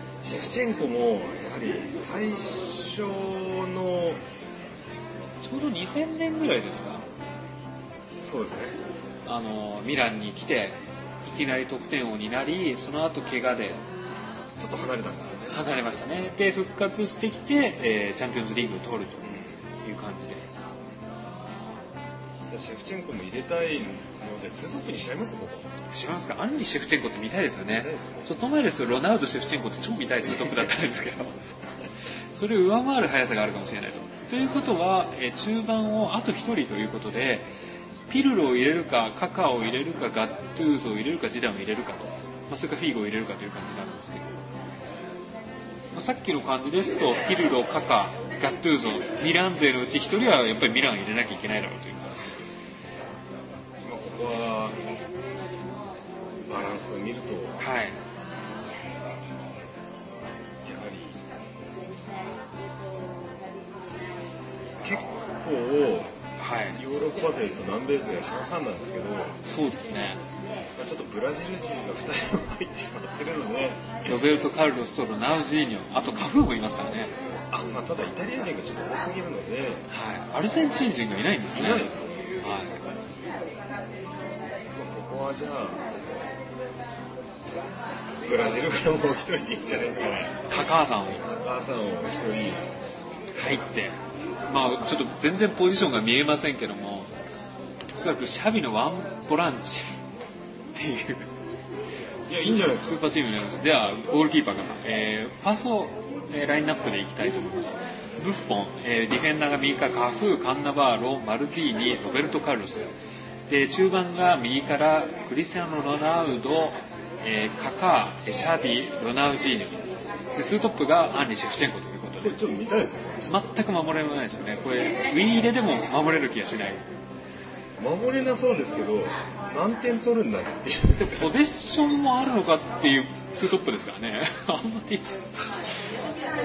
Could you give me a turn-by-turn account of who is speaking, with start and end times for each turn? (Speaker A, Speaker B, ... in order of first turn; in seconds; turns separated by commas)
Speaker A: 0.2-4.2, Speaker B: 5.4-7.0, Speaker A: 8.2-8.8, Speaker B: 9.2-13.8, Speaker A: 14.6-15.6, Speaker B: 15.5-19.3, Speaker B: 19.8-20.5, Speaker A: 22.5-25.7, Speaker B: 25.9-31.3, Speaker A: 27.7-28.4, Speaker B: 32.3-37.5, Speaker B: 38.1-44.3, Speaker B: 45.9-52.4, Speaker A: 53.8-54.8, Speaker A: 56.5-57.6, Speaker B: 57.6-58.0, Speaker A: 60.6-61.2, Speaker A: 64.8-66.2, Speaker B: 66.4-66.8, Speaker A: 66.7-69.4, Speaker B: 69.5-70.2, Speaker A: 70.8-74.3, Speaker B: 74.0-77.1, Speaker A: 76.0-76.3, Speaker A: 77.5-79.9, Speaker B: 79.9-81.9, Speaker A: 81.5-82.3, Speaker B: 82.4-82.8, Speaker A: 84.7-85.8, Speaker A: 88.2-90.6, Speaker B: 90.5-91.2, Speaker A: 91.2-92.7, Speaker B: 93.3-97.1, Speaker B: 97.9-100.0, Speaker B: 100.7-101.3, Speaker A: 102.3-103.1, Speaker B: 102.3-113.0, Speaker B: 113.5-119.8, Speaker B: 120.4-122.4, Speaker A: 122.2-123.4, Speaker B: 123.2-126.8, Speaker A: 127.8-131.3, Speaker B: 131.0-135.1